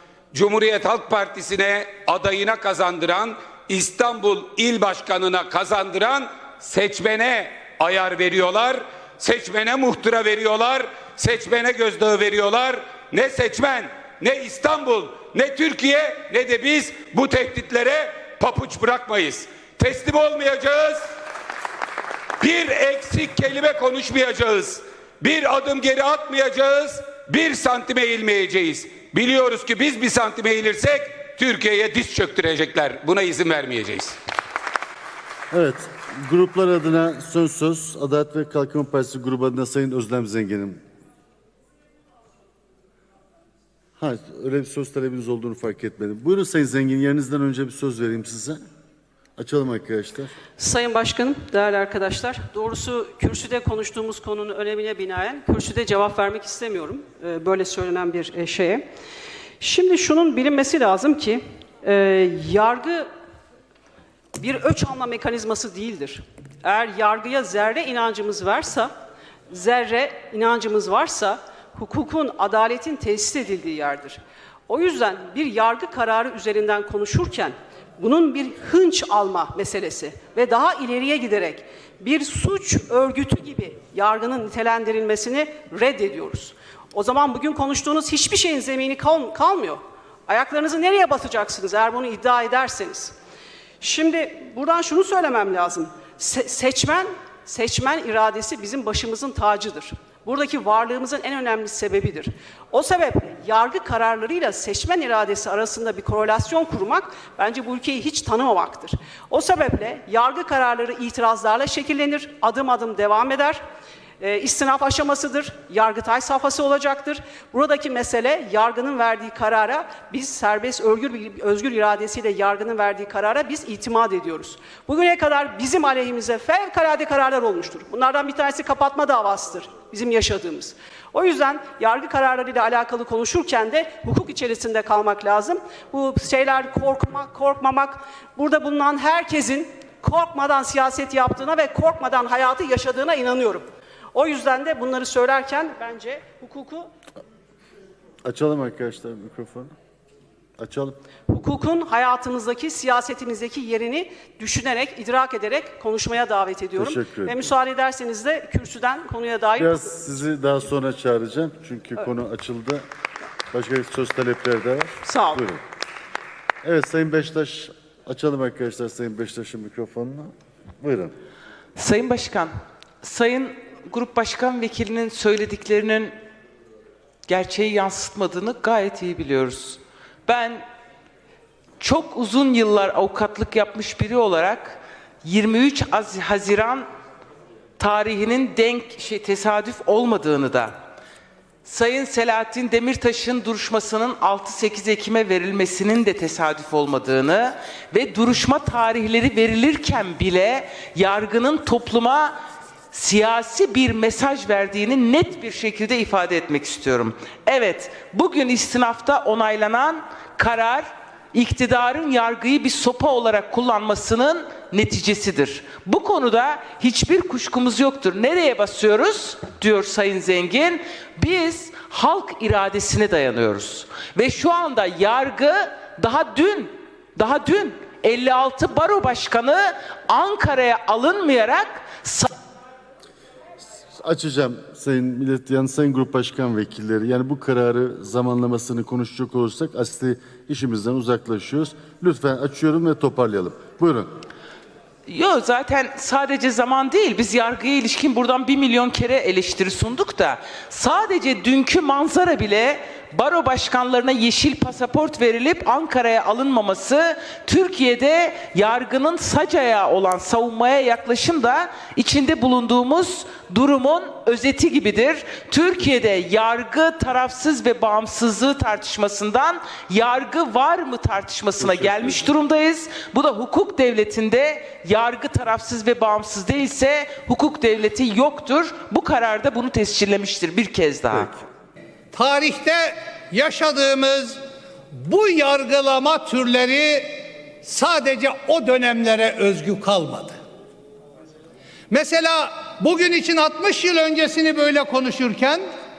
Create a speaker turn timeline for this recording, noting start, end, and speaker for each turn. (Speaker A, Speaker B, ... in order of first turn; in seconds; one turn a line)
Speaker A: 0.3-21.0
Speaker A: 22.4-34.1
Speaker B: 35.5-40.8
Speaker B: 44.0-48.6
Speaker B: 49.4-50.3
Speaker C: 50.6-58.9
Speaker C: 59.6-63.1
Speaker C: 64.3-68.9
Speaker C: 69.5-93.1
Speaker C: 93.8-113.6
Speaker C: 114.2-146.9
Speaker B: 148.2-149.7
Speaker B: 150.6-151.0
Speaker C: 151.3-160.1
Speaker B: 156.8-157.4
Speaker B: 159.6-162.8
Speaker B: 163.5-165.6
Speaker C: 165.0-165.4
Speaker B: 166.6-171.1
Speaker D: 171.8-176.1
Speaker D: 177.2-180.6
Speaker D: 181.8-186.9
Speaker D: 187.8-190.8
Speaker D: 191.6-202.3
Speaker D: 202.9-232.3
Speaker B: 234.0-244.1
Speaker D: 245.1-281.4
Speaker B: 271.7-272.0
Speaker E: 282.1-284.4
Speaker E: 284.9-290.4
Speaker E: 291.9-295.6